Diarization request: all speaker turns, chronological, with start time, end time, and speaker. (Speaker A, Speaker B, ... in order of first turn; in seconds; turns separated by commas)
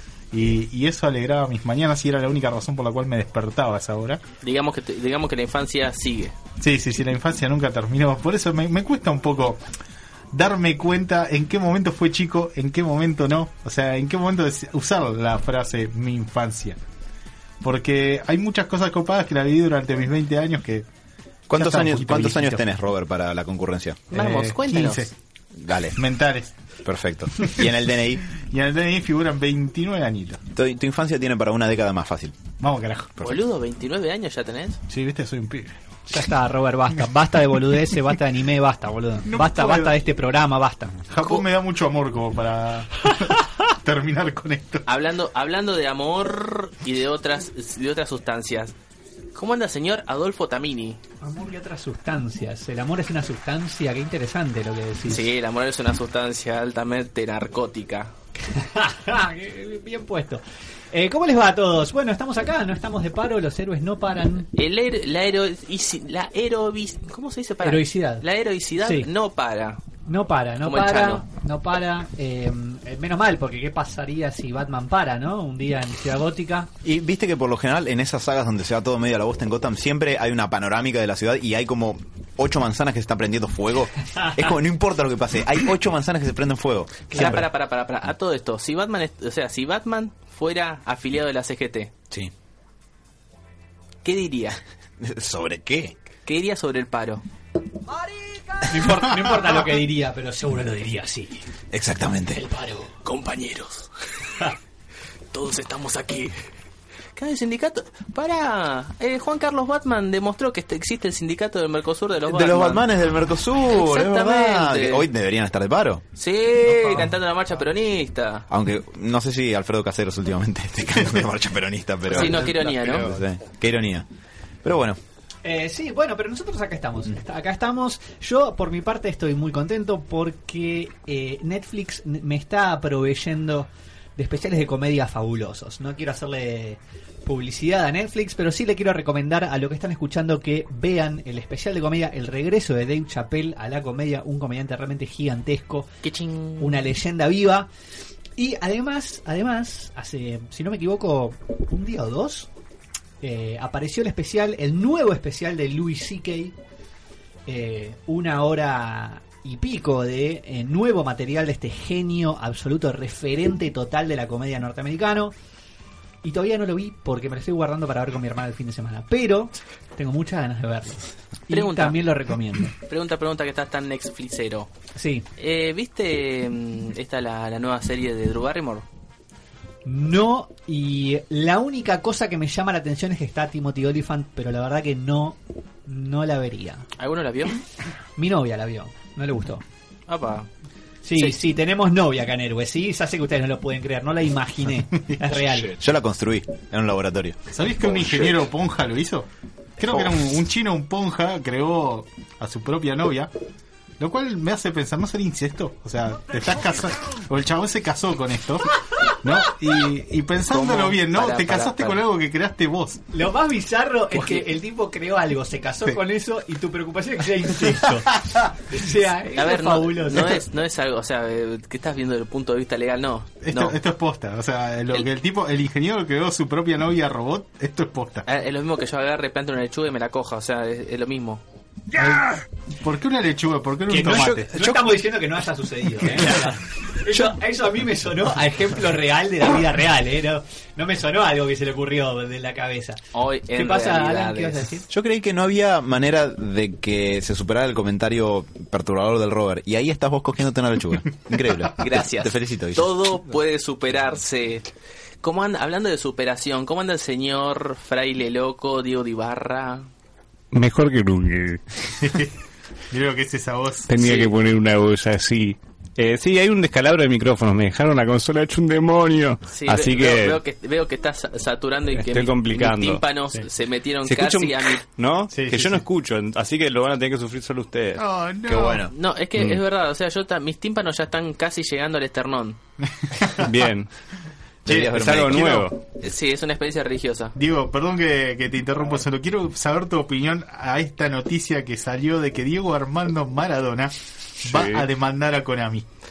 Speaker A: 0.3-4.2, Speaker B: 4.4-6.3, Speaker A: 6.6-9.6, Speaker A: 10.3-16.8, Speaker A: 17.6-20.9, Speaker C: 21.5-24.1, Speaker A: 21.5-22.7, Speaker B: 24.1-25.1, Speaker A: 24.1-25.1, Speaker C: 25.6-26.0, Speaker A: 26.0-26.5, Speaker C: 26.9-28.3, Speaker A: 28.4-30.4, Speaker C: 30.5-32.5, Speaker A: 32.6-33.1, Speaker B: 33.2-34.8, Speaker A: 34.9-35.8, Speaker D: 36.1-41.0, Speaker A: 39.3-40.0, Speaker A: 41.1-44.8, Speaker B: 44.9-48.7, Speaker B: 49.4-51.0, Speaker D: 51.2-55.3, Speaker B: 55.1-58.1, Speaker D: 58.5-64.5, Speaker B: 64.6-69.8, Speaker D: 67.6-68.2, Speaker D: 68.8-69.1, Speaker D: 70.0-76.7, Speaker B: 70.6-71.2, Speaker C: 76.8-87.5, Speaker B: 87.1-91.9, Speaker B: 94.0-94.6, Speaker C: 95.0-96.0, Speaker B: 96.3-97.2, Speaker D: 98.6-101.5, Speaker C: 101.7-102.4, Speaker D: 102.4-102.9, Speaker B: 103.0-103.9, Speaker B: 105.3-106.3, Speaker B: 107.2-112.9, Speaker C: 112.3-116.0, Speaker B: 113.7-115.1, Speaker B: 116.2-118.5, Speaker C: 118.5-124.1, Speaker B: 122.1-123.1, Speaker E: 122.4-123.2, Speaker C: 124.6-125.0, Speaker D: 125.4-145.9, Speaker B: 146.0-146.8, Speaker D: 146.6-147.7, Speaker D: 148.4-152.5, Speaker D: 153.2-156.6, Speaker D: 157.5-165.3, Speaker D: 166.2-172.8, Speaker B: 171.5-172.0, Speaker B: 172.7-174.7, Speaker D: 174.9-175.3, Speaker B: 175.4-178.8, Speaker D: 179.8-186.9, Speaker B: 187.0-187.6, Speaker D: 188.2-189.6, Speaker B: 190.1-190.5, Speaker D: 191.0-195.8, Speaker C: 195.6-197.5, Speaker A: 197.5-199.3, Speaker A: 199.8-203.3, Speaker A: 204.0-213.0, Speaker B: 210.5-212.0, Speaker D: 213.1-220.4, Speaker B: 214.1-214.4, Speaker A: 217.7-218.0, Speaker B: 219.3-223.8, Speaker A: 223.4-228.3, Speaker B: 228.3-231.4, Speaker A: 231.9-234.5, Speaker C: 233.9-234.9, Speaker D: 233.9-243.0, Speaker B: 243.1-244.7, Speaker D: 243.6-244.9, Speaker C: 244.9-253.0, Speaker B: 251.8-254.7, Speaker B: 255.2-259.9, Speaker E: 260.5-261.6, Speaker A: 262.0-262.4, Speaker A: 262.9-263.9, Speaker E: 263.9-270.4, Speaker B: 264.0-264.3, Speaker B: 269.5-274.8, Speaker E: 271.9-273.0, Speaker E: 274.1-278.0, Speaker A: 275.3-275.9, Speaker A: 278.0-278.9, Speaker C: 278.5-278.9, Speaker B: 278.9-282.6, Speaker A: 283.0-283.5, Speaker E: 283.4-283.9, Speaker C: 284.6-285.7, Speaker A: 284.7-284.9, Speaker E: 284.8-285.8, Speaker B: 286.0-287.3, Speaker A: 287.4-295.9, Speaker E: 294.4-294.9